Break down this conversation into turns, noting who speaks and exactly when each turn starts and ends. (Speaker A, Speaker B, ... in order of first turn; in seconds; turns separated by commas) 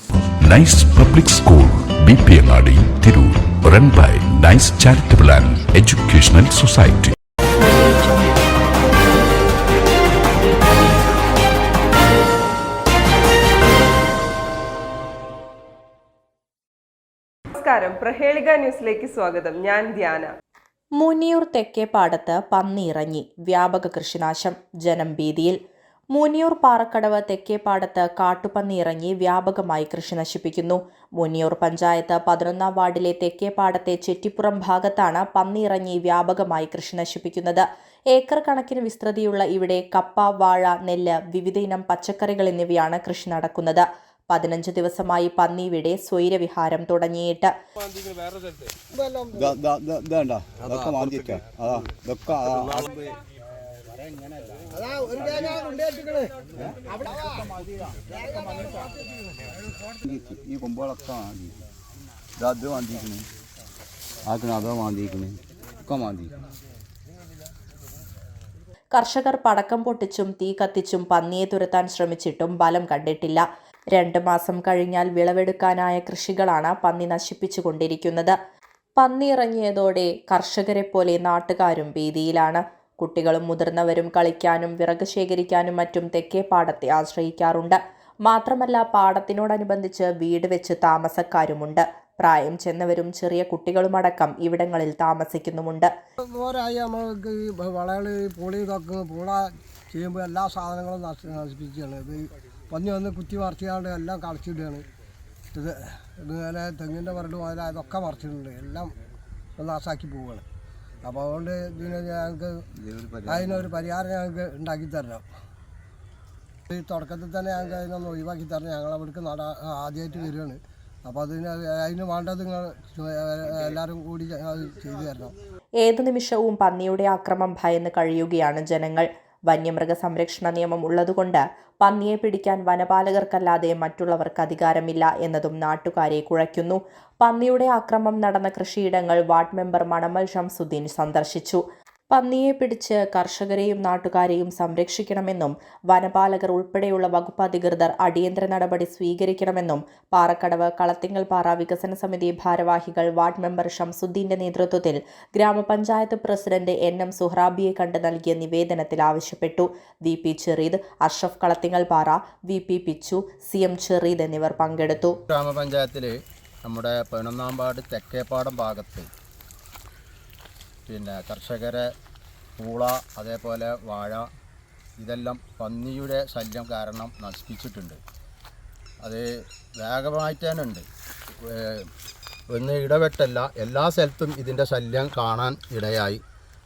Speaker A: 0.4-7.2, Speaker B: 17.5-20.3, Speaker C: 21.0-25.6, Speaker C: 26.1-47.5, Speaker D: 48.9-49.5, Speaker E: 49.3-53.0, Speaker D: 54.7-56.3, Speaker D: 56.9-57.4, Speaker D: 58.2-58.9, Speaker E: 60.0-61.6, Speaker E: 62.4-63.3, Speaker E: 64.2-66.3, Speaker C: 68.9-78.3, Speaker C: 79.0-95.9, Speaker D: 96.3-104.8, Speaker D: 105.5-109.0, Speaker D: 109.6-110.4, Speaker D: 111.0-112.6, Speaker E: 112.8-113.7, Speaker D: 113.3-115.3, Speaker D: 116.7-125.3, Speaker C: 125.8-165.2, Speaker F: 165.2-166.1, Speaker F: 166.6-169.1, Speaker F: 170.9-171.9, Speaker F: 172.6-174.3, Speaker F: 175.0-178.0, Speaker F: 179.0-179.3, Speaker F: 179.8-180.8, Speaker F: 181.5-181.9, Speaker F: 182.5-186.2